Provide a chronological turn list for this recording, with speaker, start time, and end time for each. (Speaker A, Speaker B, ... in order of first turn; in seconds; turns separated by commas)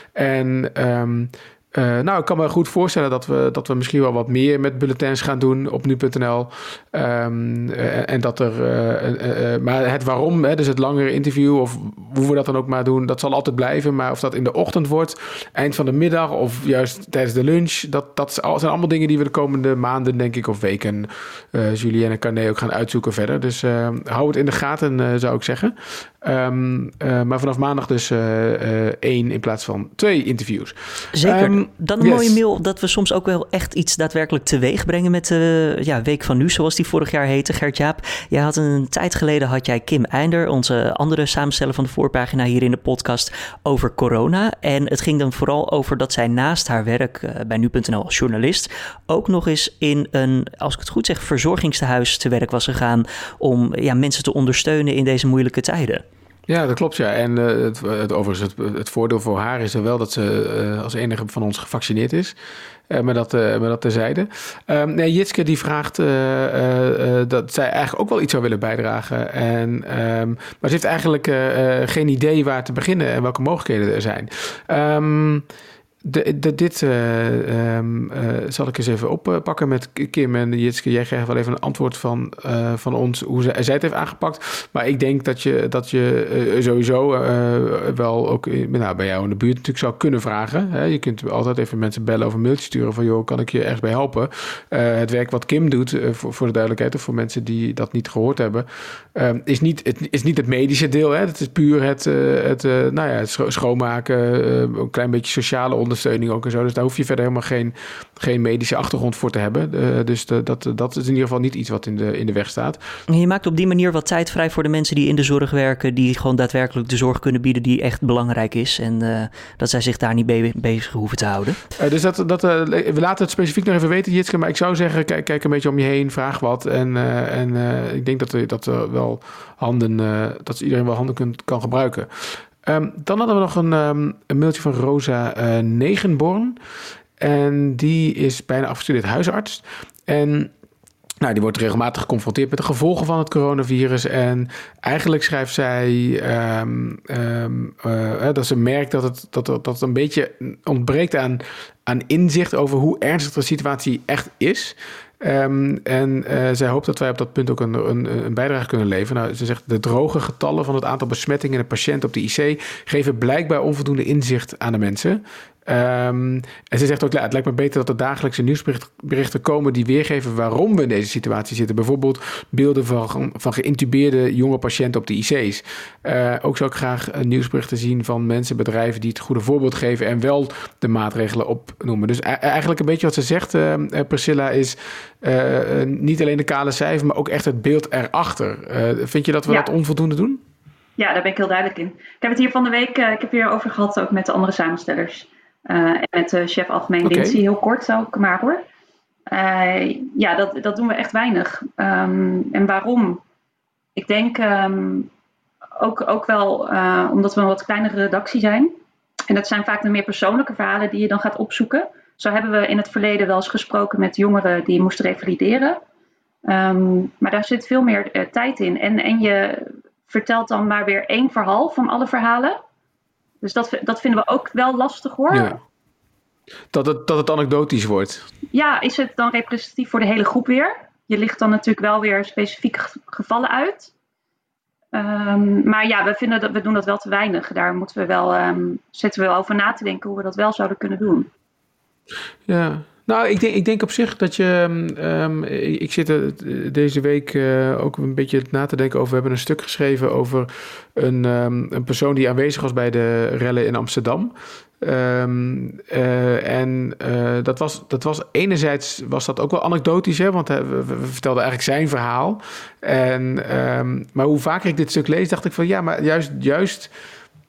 Speaker A: 0.1-32.4, Speaker B: 31.1-56.0, Speaker A: 56.5-62.3, Speaker A: 62.9-75.5, Speaker A: 76.0-112.8, Speaker B: 113.1-121.6, Speaker A: 121.8-136.6, Speaker A: 137.2-140.5, Speaker A: 141.2-190.4, Speaker C: 191.0-198.7, Speaker A: 197.0-197.4, Speaker C: 199.3-203.2, Speaker C: 203.9-205.1, Speaker C: 205.8-208.8, Speaker C: 209.3-215.8, Speaker C: 216.4-222.6, Speaker C: 223.4-225.6, Speaker A: 225.3-225.6, Speaker A: 226.7-228.2, Speaker C: 228.5-233.9, Speaker C: 234.9-241.3, Speaker A: 242.5-266.9